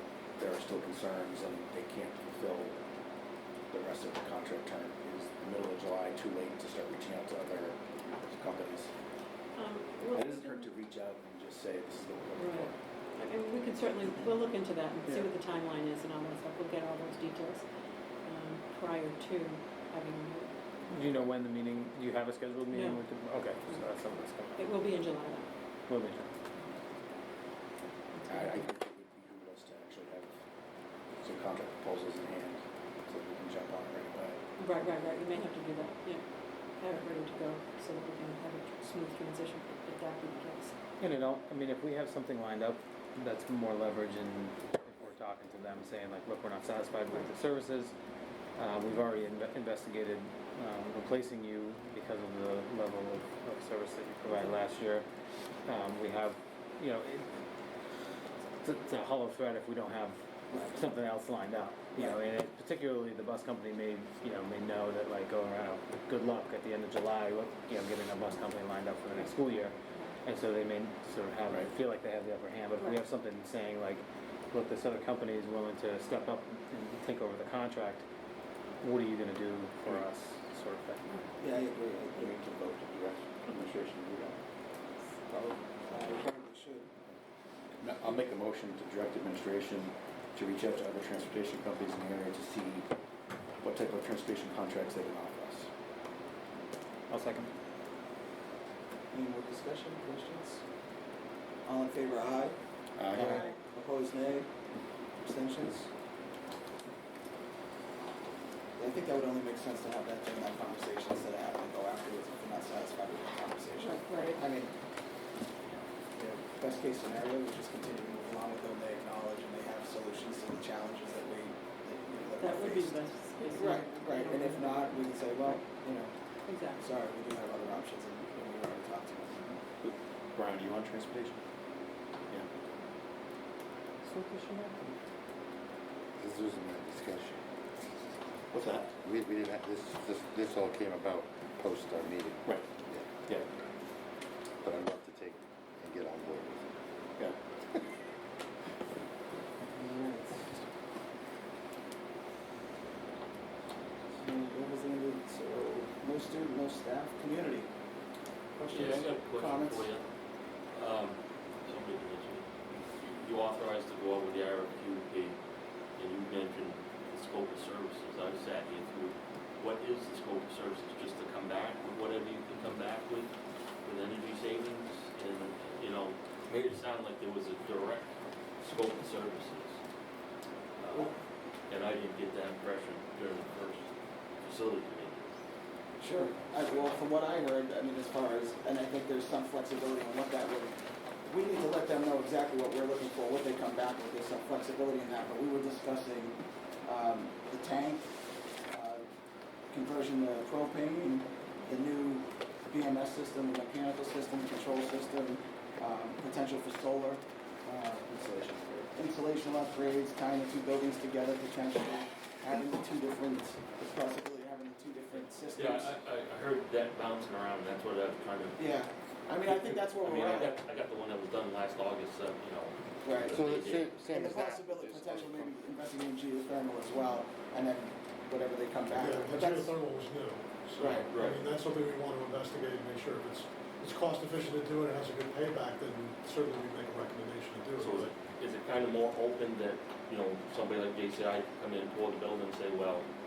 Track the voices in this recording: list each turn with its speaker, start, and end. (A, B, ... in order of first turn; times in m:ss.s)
0:00.4-0:02.8 A
0:03.7-0:08.9 A
0:09.6-0:10.7 B
0:10.1-0:12.8 A
0:12.4-0:17.6 B
0:18.3-0:20.5 B
0:20.9-0:24.7 C
0:22.7-0:23.0 B
0:24.6-0:25.5 B
0:25.9-0:26.3 C
0:28.1-0:28.6 B
0:28.3-0:30.3 A
0:31.2-0:34.4 A
0:34.6-0:36.2 B
0:36.8-0:40.7 B
0:41.0-0:47.9 C
0:48.6-0:55.1 C
0:55.7-0:57.3 C
0:58.6-1:18.0 C
1:18.8-1:21.2 C
1:21.4-1:22.9 D
1:22.2-1:24.4 A
1:25.3-1:26.9 D
1:27.8-1:32.9 A
1:33.6-1:35.7 A
1:37.1-1:37.5 C
1:39.1-1:40.6 D
1:41.6-1:42.6 D
1:43.0-1:43.4 E
1:43.1-1:44.5 D
1:43.1-1:43.5 C
1:45.2-1:45.9 D
1:48.8-1:54.7 D
1:53.8-1:54.4 B
1:56.2-2:06.1 D
2:02.4-2:04.9 B
2:06.5-2:06.8 B
2:06.8-2:09.6 D
2:09.8-2:11.4 A
2:14.0-2:14.9 C
2:16.2-2:17.4 E
2:18.5-2:19.0 A
2:19.0-2:23.1 E
2:22.5-2:22.7 A
2:24.6-2:26.7 E
2:29.7-2:30.5 D
2:34.2-2:37.7 D
2:38.6-2:39.9 D
2:38.7-2:40.0 F
2:40.7-2:45.4 F
2:46.0-2:53.3 F
2:53.8-2:59.8 F
3:00.8-3:01.2 F
3:01.7-3:03.9 F
3:04.4-3:05.3 F
3:06.0-3:18.1 D
3:18.7-3:19.1 D
3:19.7-3:28.1 D
3:28.0-3:28.9 A
3:28.9-3:36.0 D
3:35.1-3:38.8 F
3:38.6-3:40.6 D
3:39.4-3:43.9 F
3:43.0-3:43.4 D
3:43.2-3:45.6 E
3:44.1-3:49.7 D
3:48.9-3:58.1 G
3:50.8-3:51.5 F
3:50.8-3:51.1 D
3:57.8-4:03.1 F